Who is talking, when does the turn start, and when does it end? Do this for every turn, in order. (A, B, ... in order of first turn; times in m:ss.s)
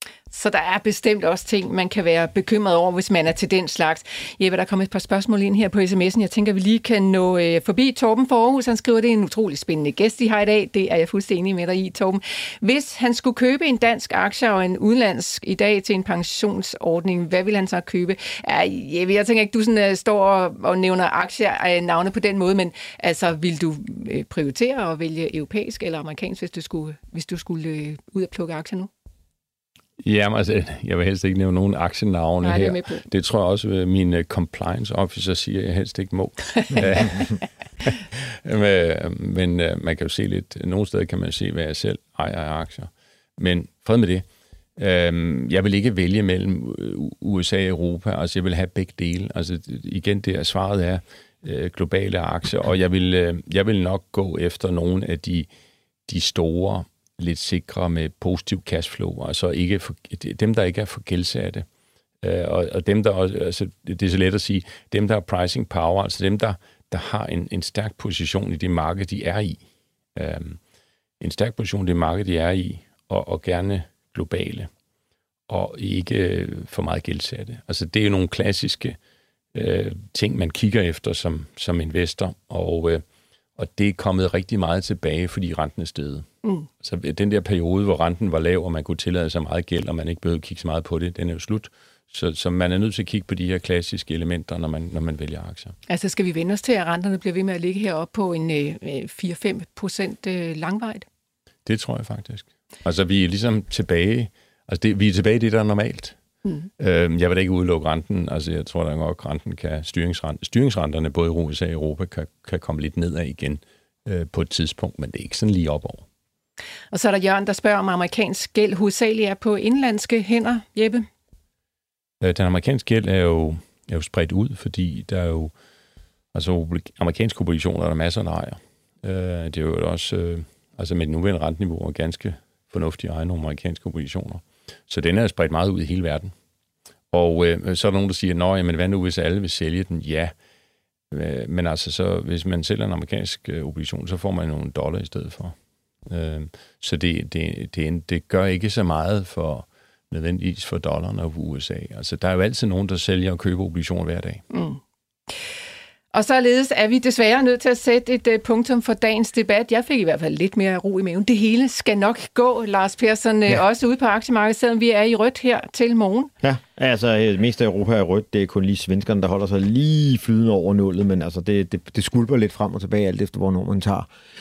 0:00.3-0:28.9 A
0:30.0-0:37.3 B
0:32.4-0:33.0 A
0:36.5-0:37.3 A
0:38.2-0:44.2 B
0:44.8-0:55.5 B
0:56.1-1:01.6 B
1:02.2-1:09.6 B
1:10.2-1:10.6 B
1:11.2-1:14.7 B
1:15.5-1:19.0 B
1:19.5-1:23.0 B
1:23.6-1:26.3 B
1:26.8-1:35.8 B
1:35.9-1:41.0 A
1:41.6-1:46.2 B
1:46.8-1:56.0 B
1:56.9-2:01.1 A
2:02.2-2:05.5 B
2:06.3-2:16.3 B
2:17.1-2:20.3 B
2:21.1-2:25.5 B
2:26.1-2:34.4 B
2:34.5-2:34.8 A
2:36.1-2:46.3 A
2:46.4-2:54.1 C